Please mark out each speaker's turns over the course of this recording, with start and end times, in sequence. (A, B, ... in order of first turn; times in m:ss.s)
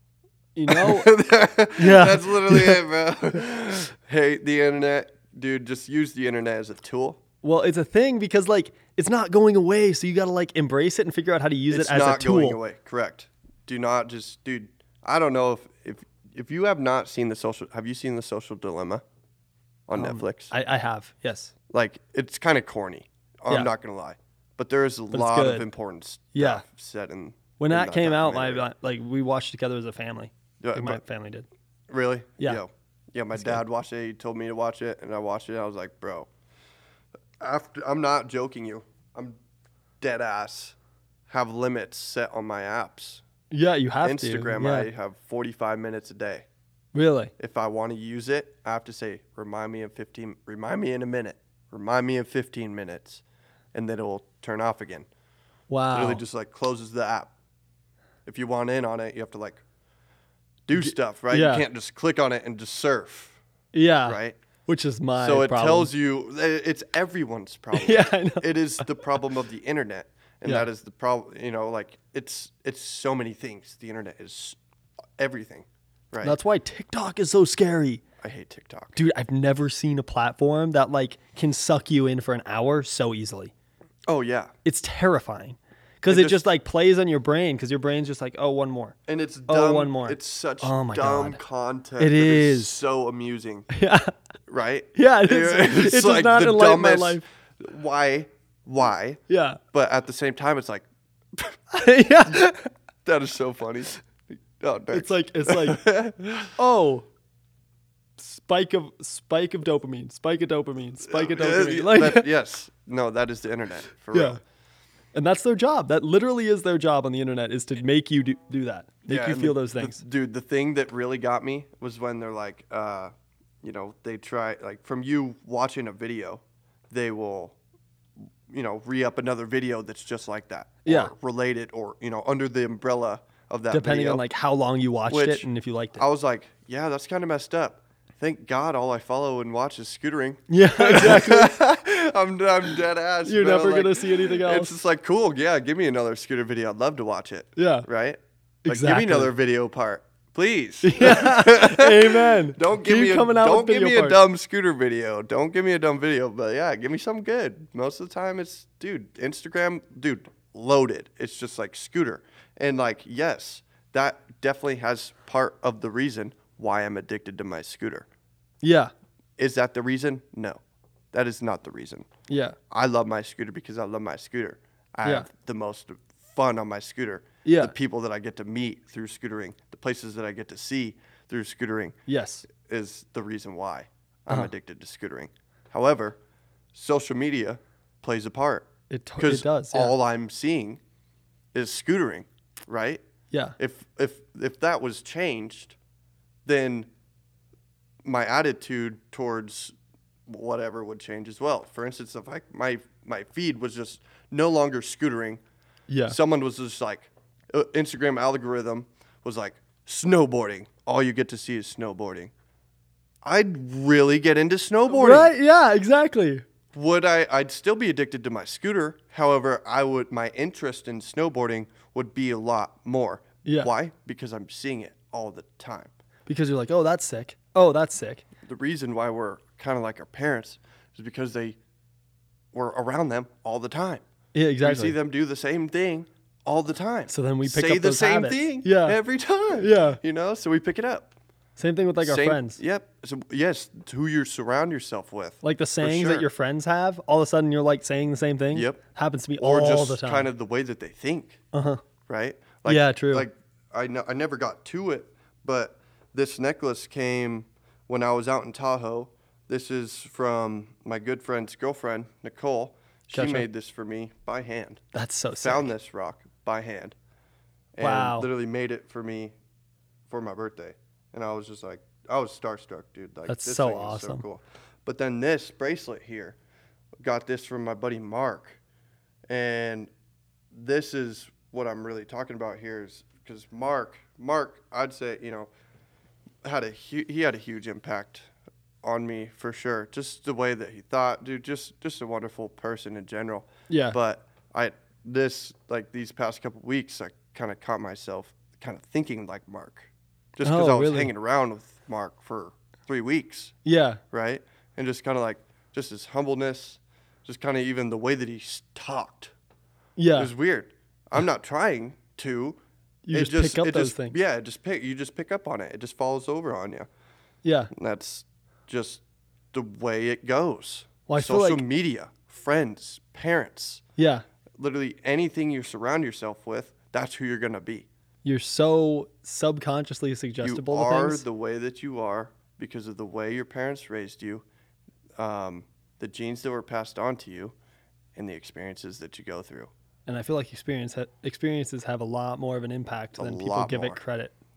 0:00.6-0:01.1 A
0:00.7-0:07.2 B
0:01.8-0:02.8 A
0:07.4-0:12.6 A
0:11.7-0:19.0 B
0:19.9-0:20.5 B
0:19.9-0:21.5 A
0:21.7-0:28.7 B
0:25.1-0:25.7 A
0:26.4-0:26.6 A
0:27.6-0:31.5 A
0:30.6-0:31.0 B
0:31.9-0:36.3 B
0:33.4-0:33.6 A
0:37.4-0:39.4 B
0:40.0-0:40.8 B
0:41.3-0:43.2 B
0:43.5-0:44.9 A
0:44.0-0:46.5 B
0:46.9-0:47.3 A
0:47.4-0:53.2 B
0:53.7-0:55.1 B
0:55.7-0:56.2 A
0:55.9-0:57.3 B
0:58.3-0:59.6 B
1:00.7-1:03.4 B
1:00.7-1:01.7 A
1:03.7-1:05.9 A
1:04.0-1:04.4 B
1:05.2-1:14.6 B
1:07.7-1:08.5 A
1:15.2-1:16.4 B
1:16.2-1:18.0 A
1:18.2-1:19.0 B
1:19.0-1:23.5 A
1:24.1-1:24.5 B
1:24.6-1:29.0 A
1:26.1-1:26.5 B
1:29.1-1:33.7 B
1:29.5-1:31.4 A
1:32.0-1:32.8 A
1:33.7-1:34.1 A
1:34.5-1:39.2 B
1:35.0-1:37.2 A
1:39.3-1:39.6 A
1:39.7-1:41.6 B
1:41.7-1:42.7 A
1:43.0-1:46.5 B
1:44.9-1:45.9 A
1:46.5-1:47.1 A
1:48.2-1:52.3 A
1:51.1-1:54.4 B
1:54.1-1:54.4 A
1:55.1-2:00.0 A
1:59.1-2:07.6 B
2:08.5-2:14.2 B
2:10.8-2:11.1 A
2:13.7-2:16.0 A
2:15.1-2:48.1 B
2:20.5-2:21.6 A
2:23.3-2:24.8 A
2:27.6-2:27.9 A
2:28.6-2:29.3 A
2:30.8-2:34.2 A
2:48.6-2:48.9 A
2:49.4-2:50.6 B
2:51.1-2:52.1 B
2:52.3-2:52.6 A
2:52.7-3:02.0 B
2:57.4-2:57.7 A
3:02.1-3:02.5 A
3:02.5-3:06.2 B
3:06.7-3:10.8 B
3:08.9-3:10.0 A
3:11.5-3:13.0 B
3:13.3-3:13.6 A
3:13.6-3:15.8 B
3:16.4-3:16.9 B
3:18.0-3:19.8 B
3:20.3-3:25.4 B
3:25.9-3:26.2 A
3:26.1-3:32.3 B
3:33.2-3:35.3 B
3:34.9-3:36.4 A
3:36.7-3:45.9 B
3:43.4-3:43.7 A
3:46.3-3:48.2 A
3:48.4-3:51.6 B
3:52.5-3:54.0 B
3:54.4-3:55.0 A
3:54.6-4:01.1 B
3:57.1-3:59.0 A
3:59.6-4:00.0 A
4:01.6-4:02.6 A
4:02.0-4:06.3 B
4:05.4-4:10.3 A
4:08.5-4:08.8 B
4:09.4-4:11.4 B
4:11.5-4:11.8 A
4:12.1-4:24.8 B
4:12.7-4:13.3 A
4:23.1-4:23.5 A
4:24.9-4:25.7 A
4:25.4-4:27.0 B
4:27.8-4:29.4 B
4:27.8-4:28.3 A
4:30.1-4:36.4 B
4:33.3-4:34.2 A
4:37.0-4:38.6 B
4:39.3-4:39.9 B
4:40.5-4:45.5 B
4:46.4-4:48.3 B
4:48.8-5:03.5 B
4:53.7-4:54.0 A
5:00.4-5:01.1 A
5:03.6-5:04.0 A
5:04.1-5:09.3 B
5:10.0-5:10.3 A
5:10.2-5:12.6 B
5:13.0-5:14.2 A
5:13.1-5:16.9 B
5:17.4-5:17.7 A
5:17.7-5:19.0 B
5:19.5-5:23.8 B
5:21.1-5:21.6 A
5:24.0-5:24.2 A
5:24.6-5:27.9 B
5:28.2-5:31.2 A
5:30.4-5:34.4 B
5:35.2-5:37.6 B
5:38.2-5:39.7 B
5:40.1-5:44.3 A
5:43.2-5:44.0 B